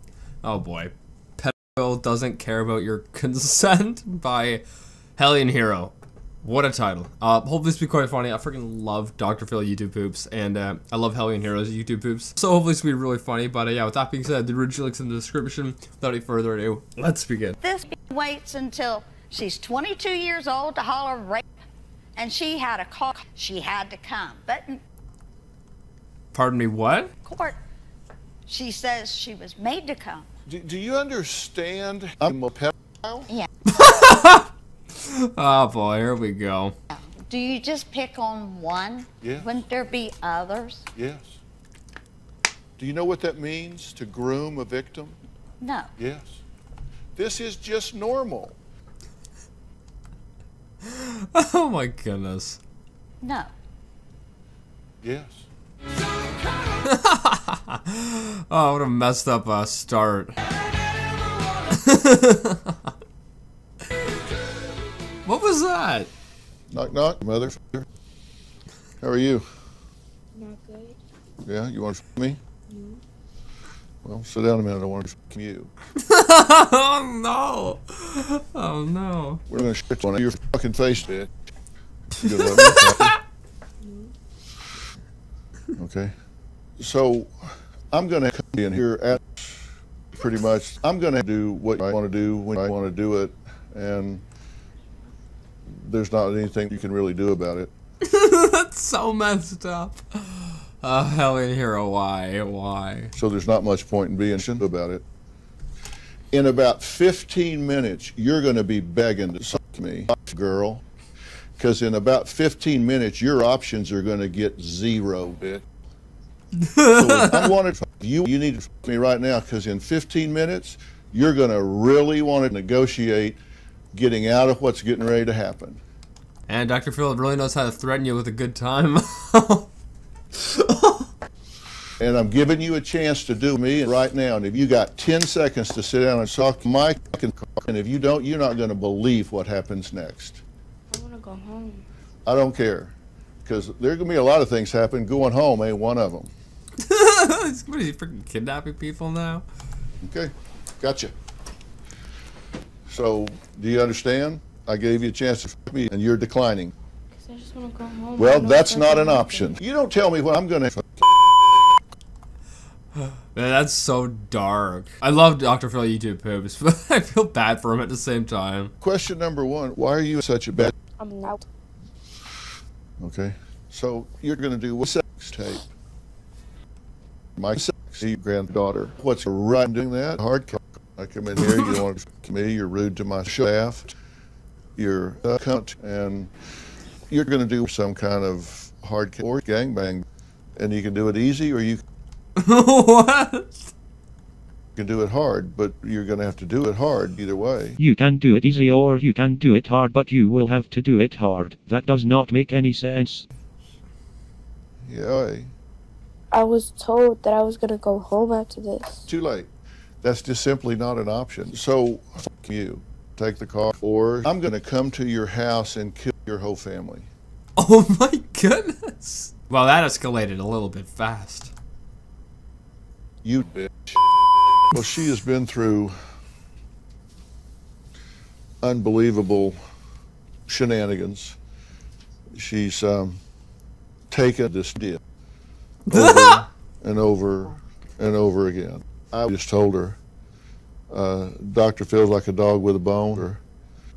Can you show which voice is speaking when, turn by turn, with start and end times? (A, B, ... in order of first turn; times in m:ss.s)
0:00.4-0:04.6 A
0:05.2-0:17.6 A
0:17.6-0:21.5 B
0:22.2-0:24.8 B
0:26.3-0:27.1 A
0:27.2-0:27.6 B
0:28.5-0:30.3 B
0:30.5-0:33.3 C
0:33.7-0:36.7 A
0:36.9-0:40.8 B
0:39.2-0:39.5 C
0:41.0-0:41.4 C
0:42.8-0:45.2 C
0:45.6-0:45.9 B
0:46.0-0:46.4 C
0:47.2-0:48.6 C
0:50.8-0:52.6 A
0:53.2-0:53.5 B
0:55.0-0:55.4 C
0:56.8-1:00.3 A
1:01.7-1:02.8 A
1:05.2-1:06.1 A
1:06.7-1:07.9 C
1:09.0-1:09.4 C
1:10.3-1:11.0 D
1:11.4-1:12.4 C
1:12.7-1:13.0 D
1:14.0-1:15.7 C
1:16.0-1:19.4 A
1:19.5-1:21.3 C
1:22.1-1:23.1 A
1:22.2-1:23.2 C
1:25.8-1:26.1 C
1:26.8-1:29.6 C
1:30.2-1:34.2 C
1:35.6-1:37.7 C
1:38.0-1:43.1 A
1:43.1-1:45.0 C
1:46.3-1:50.8 C
1:51.6-1:55.6 C
1:56.6-1:57.5 A
1:56.9-2:03.4 C
2:03.9-2:05.8 C
2:06.5-2:09.7 A
2:10.3-2:11.1 A
2:12.0-2:20.4 C
2:20.9-2:21.8 D
2:22.2-2:22.9 C
2:23.4-2:26.3 C
2:26.8-2:29.4 A
2:30.0-2:31.1 C
2:32.9-2:36.7 C
2:37.1-2:39.5 D
2:38.2-2:41.0 C
2:43.0-2:48.7 A
2:48.8-2:50.8 C
2:51.0-2:51.4 D
2:53.0-2:55.6 C
2:57.4-3:03.9 C
3:04.8-3:06.3 C
3:07.1-3:10.0 C
3:10.6-3:11.8 C
3:12.4-3:13.7 A
3:14.8-3:17.8 C
3:17.8-3:23.2 E
3:24.8-3:25.5 C
3:26.3-3:29.0 D
3:29.1-3:29.5 C
3:30.0-3:37.1 C
3:37.6-3:41.5 A
3:43.2-3:44.0 C
3:44.7-3:46.0 C
3:48.6-3:49.6 C
3:50.5-3:51.4 C
3:52.3-3:53.2 C
3:54.1-3:55.0 C
3:55.9-3:56.4 A
3:55.9-4:00.0 C
4:00.9-4:03.4 C